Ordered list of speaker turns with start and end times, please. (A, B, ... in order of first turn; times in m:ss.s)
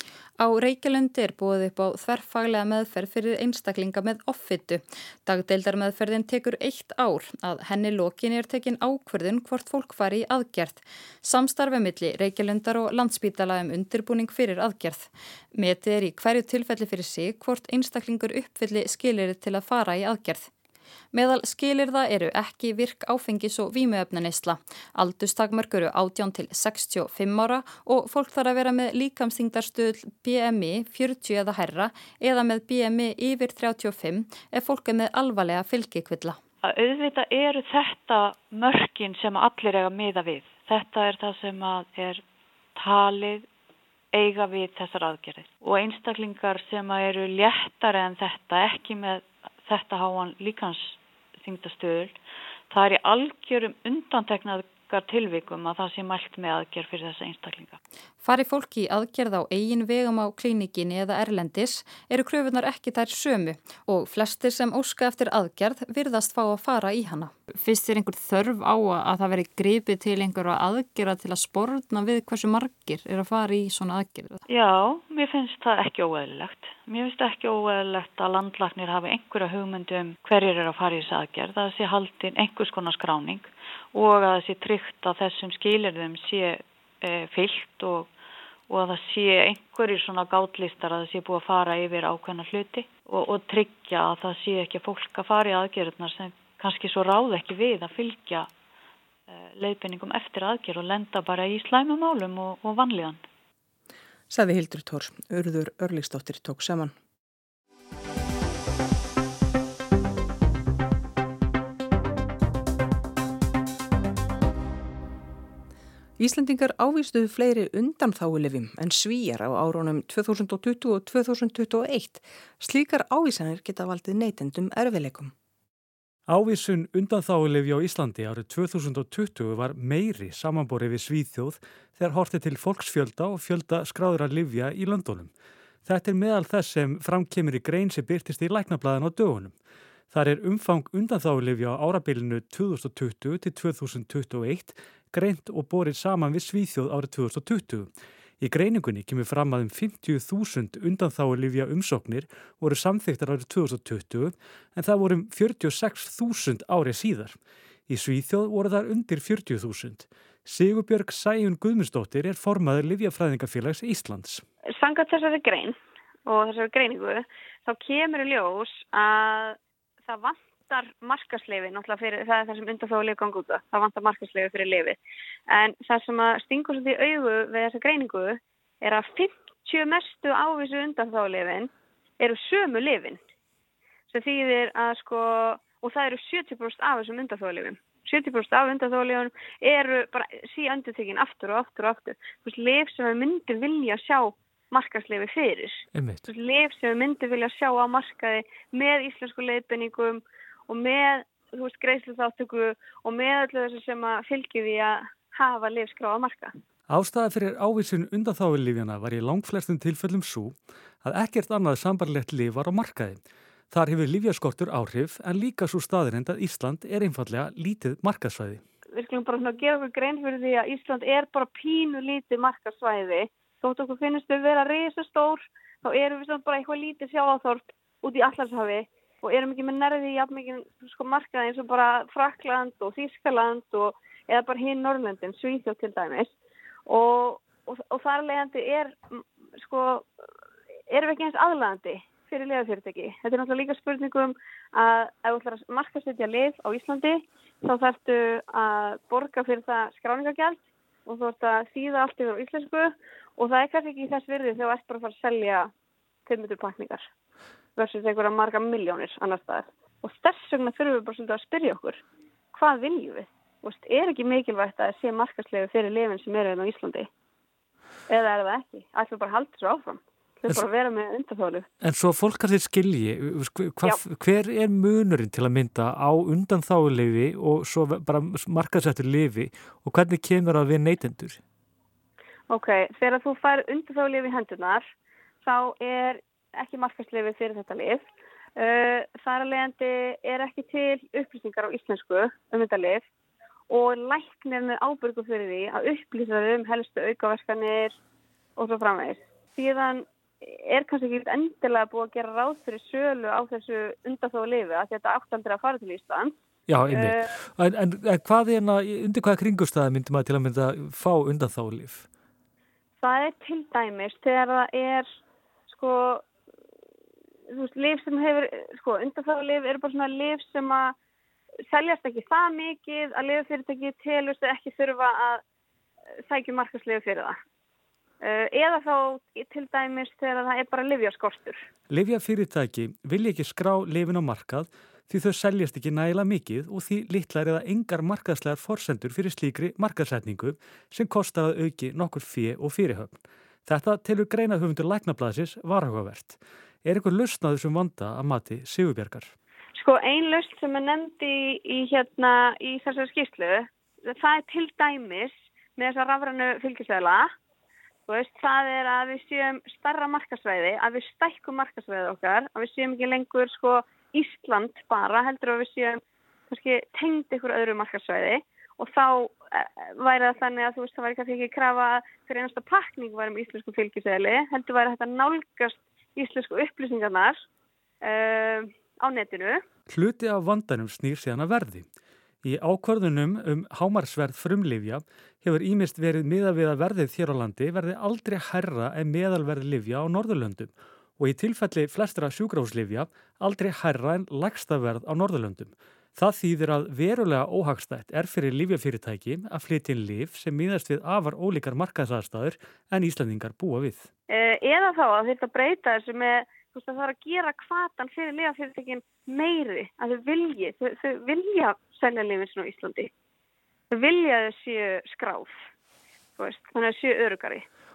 0:00.4-0:20.5 A
0:21.1-0:36.4 A
0:36.6-0:42.2 B
0:42.7-0:43.5 B
0:44.1-0:52.2 B
0:52.7-0:57.8 B
0:58.2-1:14.4 A
1:14.5-1:28.1 B
1:28.7-1:38.5 B
1:39.3-1:43.2 B
1:44.3-1:46.9 C
1:56.2-2:05.3 C
2:06.3-2:15.3 D
2:15.8-2:19.6 D
2:20.1-2:44.4 D
2:44.7-2:55.0 E
2:55.5-3:03.2 E
3:04.1-3:26.5 E
3:15.9-3:16.2 D
3:26.9-3:38.6 D
3:38.9-3:56.3 E
3:56.9-4:00.1 E
4:00.9-4:15.7 E
4:16.2-4:17.0 E
4:17.8-4:22.0 E
4:22.5-4:27.1 E
4:28.1-4:31.7 E
4:31.8-4:41.4 D
4:42.5-4:44.9 E
4:45.4-4:48.0 E
4:48.6-4:53.0 E
4:53.7-4:58.0 E
4:58.6-5:06.4 E
5:06.7-5:12.0 D
5:06.9-5:07.2 E
5:13.0-5:15.0 E
5:15.7-5:16.2 E
5:17.5-5:20.9 E
5:21.7-5:25.4 E
5:26.3-5:27.4 E
5:28.2-5:31.6 E
5:31.9-5:49.3 D
5:49.8-5:57.3 E
5:58.1-6:17.4 E
6:18.0-6:19.6 E
6:19.9-6:21.9 D
6:22.4-6:44.1 D
6:44.3-6:53.1 E
6:53.9-6:55.5 E
6:56.4-6:57.6 E